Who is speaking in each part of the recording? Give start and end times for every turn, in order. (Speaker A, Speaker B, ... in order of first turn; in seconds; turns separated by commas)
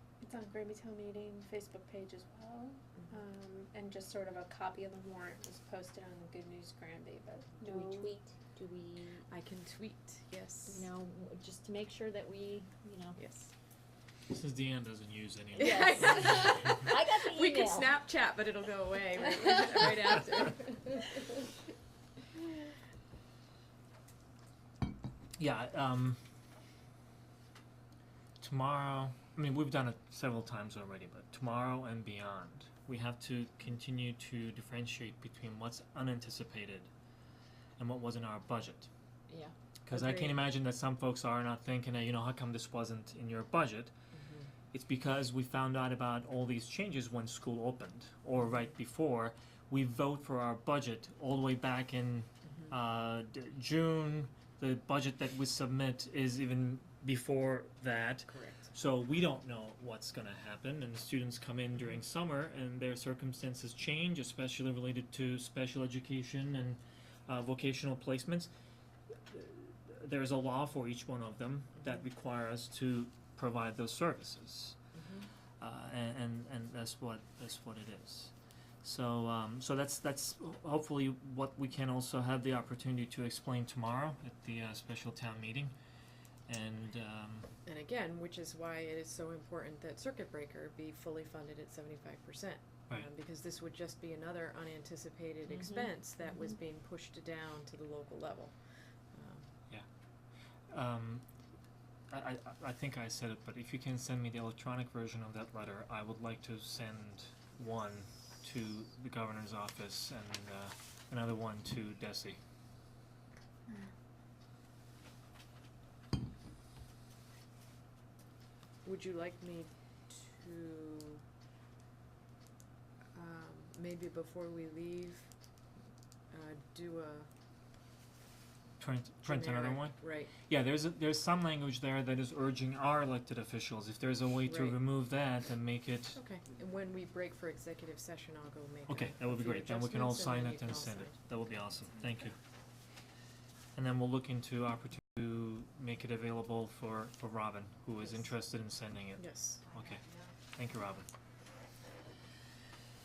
Speaker A: 0.2-8.1, Speaker B: 7.6-9.2, Speaker C: 9.3-10.9, Speaker B: 10.7-13.2, Speaker C: 13.2-13.5, Speaker D: 14.3-16.9, Speaker C: 15.6-21.2, Speaker B: 15.6-18.0, Speaker B: 19.4-19.9, Speaker D: 25.4-26.2, Speaker D: 28.4-36.9, Speaker D: 37.8-38.9, Speaker C: 39.3-40.4, Speaker D: 39.8-43.9, Speaker C: 44.1-44.5, Speaker D: 44.7-68.5, Speaker C: 58.3-58.7, Speaker D: 69.3-74.8, Speaker C: 75.0-75.3, Speaker D: 75.6-85.7, Speaker D: 86.5-87.5, Speaker C: 87.6-99.5, Speaker B: 95.5-95.9, Speaker D: 100.7-101.2, Speaker D: 102.1-112.4, Speaker C: 118.8-121.2, Speaker C: 123.1-125.3, Speaker C: 126.3-127.3, Speaker D: 128.8-136.2, Speaker C: 129.2-130.3, Speaker C: 134.4-134.8, Speaker C: 136.1-141.1, Speaker D: 138.9-142.3, Speaker D: 143.7-150.0, Speaker C: 149.2-149.7, Speaker D: 150.5-151.1